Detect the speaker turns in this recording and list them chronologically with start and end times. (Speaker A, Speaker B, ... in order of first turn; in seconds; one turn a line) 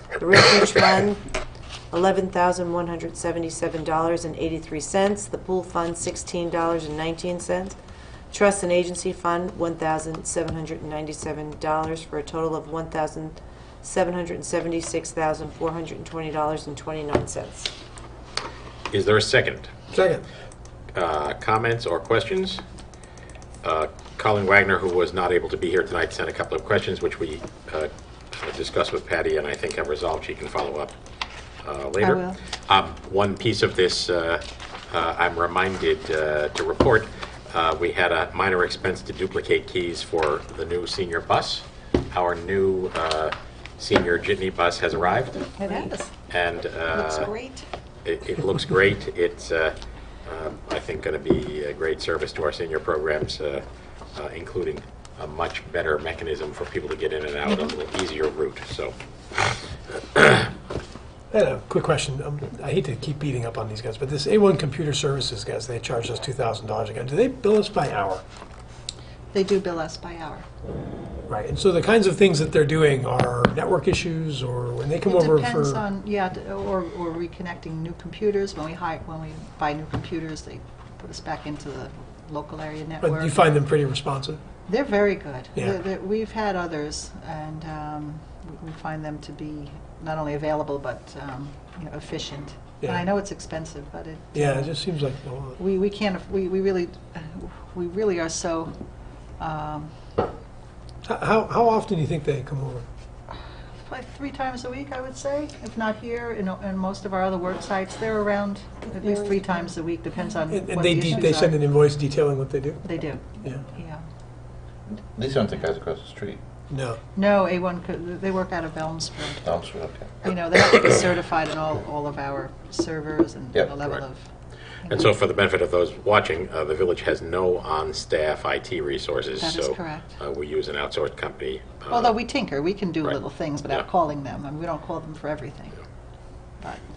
Speaker A: 0.2-1.2
Speaker A: 1.9-7.8
Speaker A: 8.3-17.7
Speaker B: 18.9-19.7
Speaker C: 19.9-20.2
Speaker B: 20.9-22.6
Speaker B: 23.6-30.9
Speaker B: 31.6-45.5
Speaker D: 32.0-32.4
Speaker D: 45.6-46.1
Speaker B: 46.3-47.3
Speaker D: 46.9-47.7
Speaker B: 48.0-60.5
Speaker D: 57.5-57.7
Speaker C: 61.3-68.2
Speaker D: 69.3-70.5
Speaker C: 71.3-75.8
Speaker D: 75.0-83.5
Speaker C: 83.0-84.4
Speaker D: 84.7-94.8
Speaker C: 85.5-85.8
Speaker C: 94.3-95.6
Speaker D: 95.6-98.7
Speaker D: 99.4-99.9
Speaker C: 101.0-102.8
Speaker D: 103.3-111.6
Speaker C: 110.5-113.7
Speaker D: 112.8-114.0
Speaker E: 114.9-116.4
Speaker C: 116.7-117.0
Speaker D: 117.2-119.5
Speaker E: 119.4-120.1
Speaker D: 120.2-124.2
Speaker E: 123.5-123.8
Speaker D: 124.8-125.1
Speaker B: 124.9-132.2
Speaker D: 129.4-130.1
Speaker D: 131.9-135.8